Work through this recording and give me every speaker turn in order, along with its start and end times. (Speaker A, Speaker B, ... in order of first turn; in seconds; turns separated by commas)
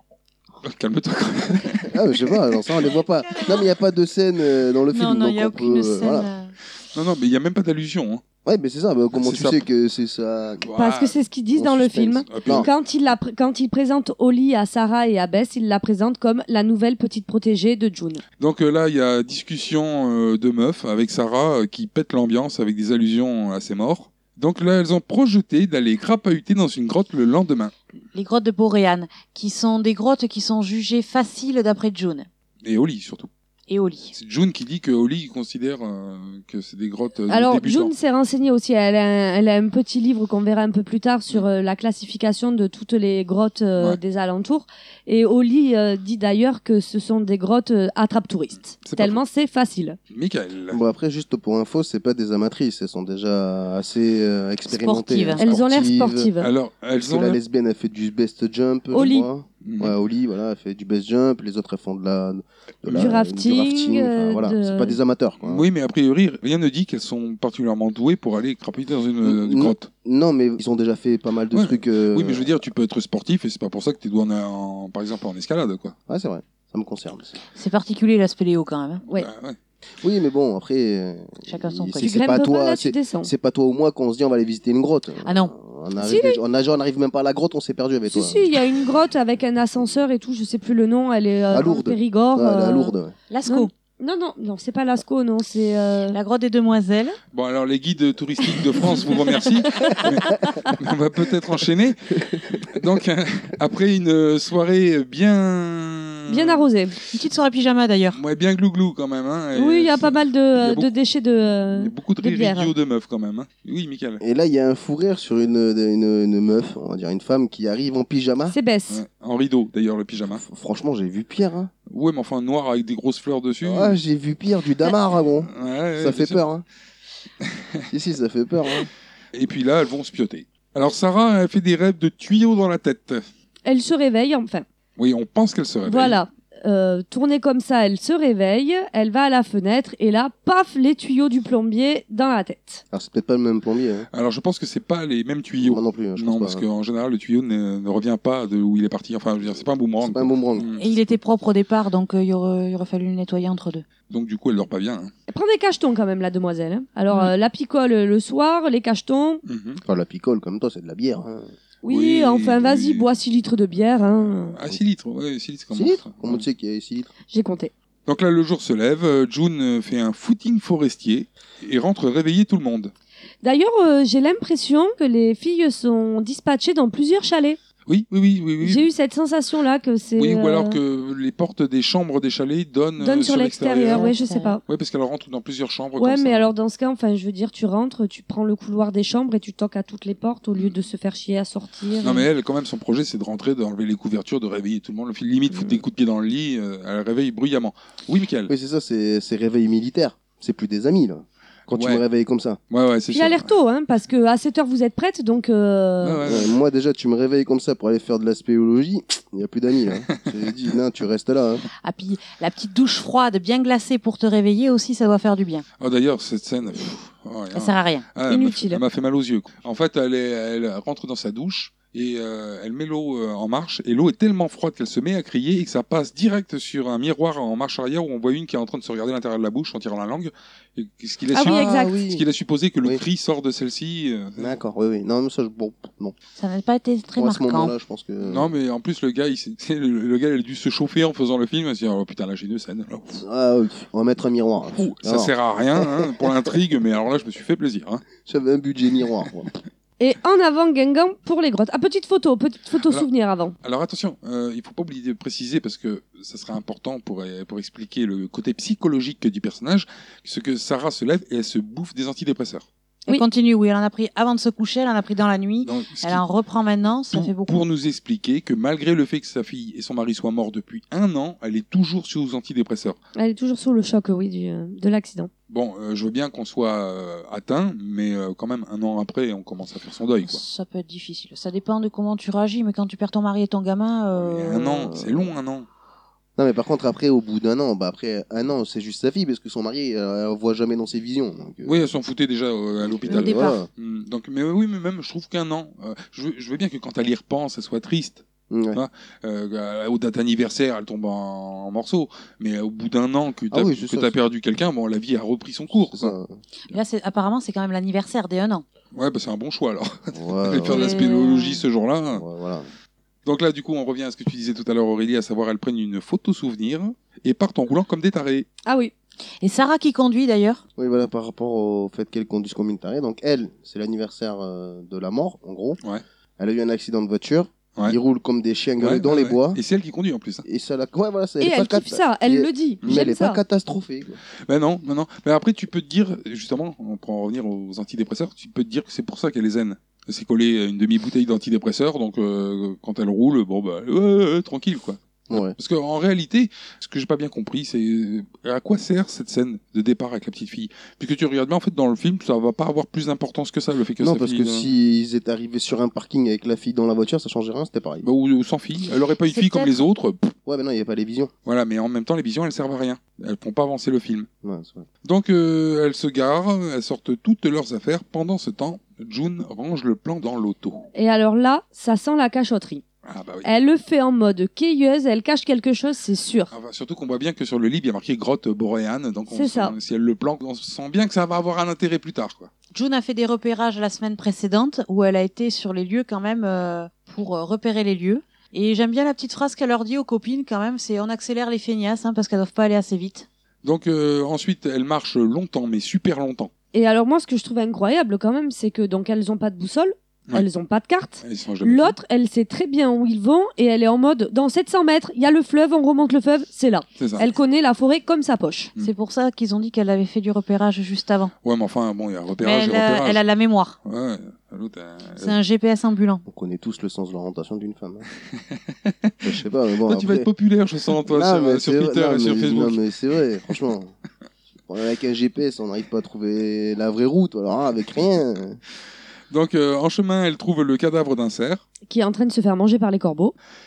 Speaker A: 0.6-3.0, Speaker B: 1.9-6.3, Speaker C: 4.9-6.5, Speaker A: 6.9-8.2, Speaker B: 8.4-10.7, Speaker A: 9.2-9.6, Speaker A: 10.6-11.2, Speaker D: 10.8-18.2, Speaker B: 11.5-12.7, Speaker A: 12.3-12.7, Speaker A: 18.4-27.7, Speaker C: 28.1-32.3, Speaker A: 32.6-33.3, Speaker C: 33.7-34.1, Speaker A: 34.1-37.9, Speaker D: 37.3-50.0, Speaker A: 48.8-49.2, Speaker A: 50.1-50.8, Speaker B: 50.7-56.3, Speaker C: 54.7-55.4, Speaker D: 55.4-56.5, Speaker A: 56.4-57.4, Speaker B: 57.0-65.7, Speaker D: 58.9-59.3, Speaker A: 59.6-60.0, Speaker A: 62.9-63.1, Speaker D: 62.9-65.0, Speaker A: 65.4-69.9, Speaker B: 69.2-72.7, Speaker A: 71.5-76.0, Speaker B: 76.1-77.4, Speaker C: 77.5-79.0, Speaker A: 79.1-79.6, Speaker B: 80.0-88.5, Speaker C: 81.5-82.1, Speaker D: 82.0-83.3, Speaker C: 85.2-85.5, Speaker D: 86.0-86.4, Speaker D: 88.1-92.9, Speaker B: 91.5-93.1, Speaker C: 93.3-93.7, Speaker D: 93.5-96.2, Speaker C: 96.1-97.2, Speaker A: 97.3-107.0, Speaker C: 98.9-99.9, Speaker B: 102.3-102.6, Speaker D: 106.3-107.0, Speaker C: 107.1-108.2, Speaker A: 108.1-110.9, Speaker D: 109.5-112.7, Speaker A: 111.7-114.2, Speaker B: 114.2-118.5, Speaker D: 118.5-119.0, Speaker A: 118.9-120.4, Speaker B: 120.2-121.7, Speaker A: 121.9-124.0, Speaker B: 123.6-126.6, Speaker A: 125.5-126.4, Speaker A: 127.4-127.8, Speaker B: 127.9-128.9, Speaker A: 129.3-133.3, Speaker D: 133.7-134.6, Speaker A: 135.0-136.2, Speaker D: 135.8-142.8, Speaker B: 142.9-144.1, Speaker A: 144.1-150.9, Speaker B: 145.6-146.6, Speaker B: 150.0-150.7, Speaker C: 150.8-153.8, Speaker A: 154.1-155.1, Speaker D: 155.3-159.4, Speaker A: 159.4-159.8, Speaker B: 159.8-161.5, Speaker D: 161.8-164.6, Speaker A: 161.8-163.1, Speaker A: 164.0-166.4, Speaker B: 165.7-167.1, Speaker D: 167.3-167.7, Speaker A: 168.1-172.9, Speaker D: 173.4-177.6, Speaker A: 177.9-178.9, Speaker D: 178.6-180.8, Speaker A: 180.2-184.1, Speaker D: 183.0-184.6, Speaker C: 183.9-184.6, Speaker A: 184.7-186.5, Speaker D: 186.0-192.3, Speaker A: 192.0-198.5, Speaker D: 195.5-195.8, Speaker B: 198.5-202.6, Speaker A: 201.7-202.0, Speaker A: 202.7-203.5, Speaker D: 203.1-206.2, Speaker A: 206.0-206.6, Speaker B: 206.2-211.6, Speaker C: 211.8-215.6, Speaker A: 215.8-234.5, Speaker C: 217.5-218.0, Speaker D: 218.2-218.8, Speaker D: 231.3-231.9, Speaker B: 231.4-232.2, Speaker B: 234.4-236.1, Speaker C: 236.4-237.7, Speaker B: 237.2-238.5, Speaker A: 238.2-243.2, Speaker B: 243.2-246.3, Speaker A: 244.8-248.0, Speaker B: 248.2-249.6, Speaker D: 250.0-253.5, Speaker A: 253.6-262.6, Speaker C: 263.1-267.6, Speaker A: 265.6-266.2, Speaker A: 267.1-273.0, Speaker D: 273.1-275.3, Speaker A: 275.5-280.4, Speaker C: 280.2-285.3, Speaker A: 284.1-285.7, Speaker B: 286.4-291.9, Speaker A: 291.6-306.1, Speaker B: 292.8-293.7, Speaker C: 293.1-293.6, Speaker B: 298.5-298.8, Speaker B: 303.5-304.1, Speaker B: 305.7-306.4, Speaker C: 306.7-308.6, Speaker A: 308.9-312.2, Speaker B: 310.1-311.0, Speaker D: 310.7-311.5, Speaker C: 310.8-311.4, Speaker B: 312.1-312.7, Speaker A: 313.2-318.5, Speaker D: 318.6-318.9, Speaker C: 319.4-320.6, Speaker B: 320.8-325.8, Speaker B: 326.4-329.6, Speaker A: 328.8-330.4, Speaker B: 330.4-334.2, Speaker D: 331.4-333.4, Speaker A: 334.4-354.7, Speaker B: 345.3-345.6, Speaker B: 354.0-358.1, Speaker A: 358.0-360.3, Speaker C: 359.3-359.7, Speaker B: 360.4-361.3, Speaker A: 361.4-364.3, Speaker B: 364.4-364.9, Speaker A: 365.0-370.9, Speaker D: 370.9-372.8, Speaker A: 373.0-373.5, Speaker D: 373.4-376.5, Speaker A: 376.5-382.5, Speaker D: 379.3-379.7, Speaker C: 382.7-393.3, Speaker A: 393.6-396.5, Speaker D: 396.7-408.7, Speaker A: 401.2-401.9, Speaker A: 407.0-407.3, Speaker C: 408.8-411.3, Speaker A: 411.4-413.2, Speaker C: 412.4-413.8, Speaker A: 413.8-415.4, Speaker C: 415.2-416.2, Speaker B: 416.3-418.0, Speaker A: 418.4-419.3, Speaker B: 419.2-420.3, Speaker A: 419.9-422.8, Speaker B: 421.0-423.9, Speaker B: 424.7-428.6, Speaker A: 429.3-431.6, Speaker D: 431.9-433.3